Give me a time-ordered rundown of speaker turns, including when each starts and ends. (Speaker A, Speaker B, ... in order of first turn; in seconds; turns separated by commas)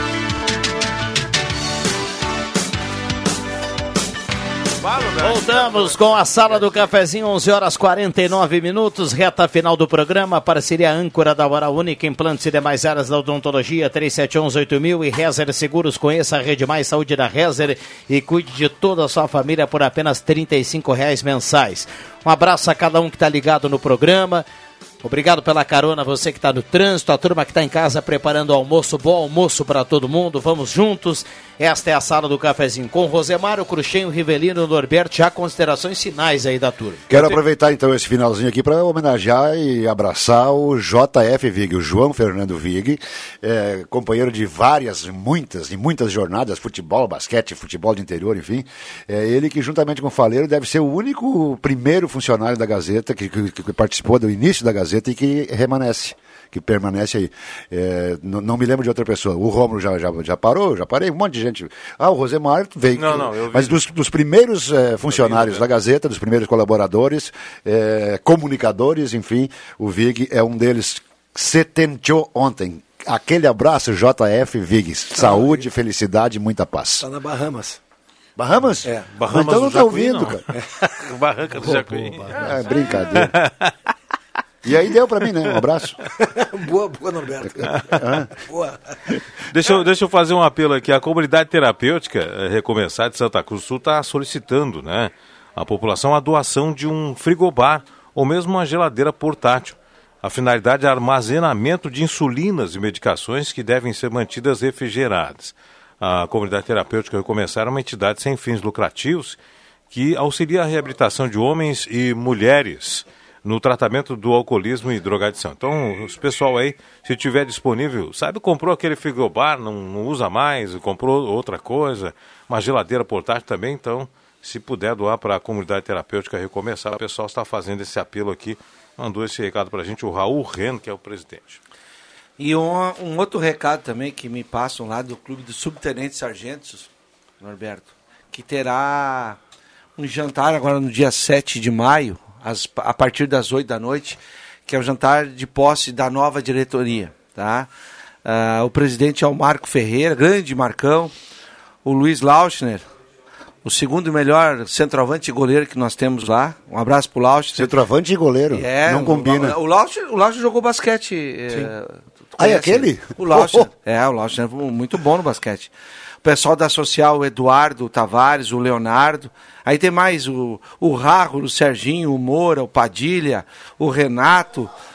Speaker A: 5.2-24.4, Speaker B: 5.3-6.7, Speaker A: 25.0-37.1, Speaker C: 37.1-77.1, Speaker B: 62.9-63.8, Speaker B: 65.1-65.6, Speaker D: 75.2-75.6, Speaker D: 77.0-77.8, Speaker C: 78.4-80.4, Speaker D: 78.8-79.2, Speaker B: 79.1-83.7, Speaker C: 82.2-83.3, Speaker C: 84.6-86.0, Speaker D: 86.2-88.8, Speaker C: 87.5-88.3, Speaker B: 89.5-109.4, Speaker B: 109.9-131.6, Speaker E: 132.4-136.9, Speaker E: 137.4-139.4, Speaker E: 140.0-147.7, Speaker E: 148.2-151.1, Speaker E: 151.8-152.8, Speaker E: 153.6-157.8, Speaker C: 157.5-159.6, Speaker E: 158.5-165.7, Speaker C: 162.4-163.7, Speaker E: 166.2-174.7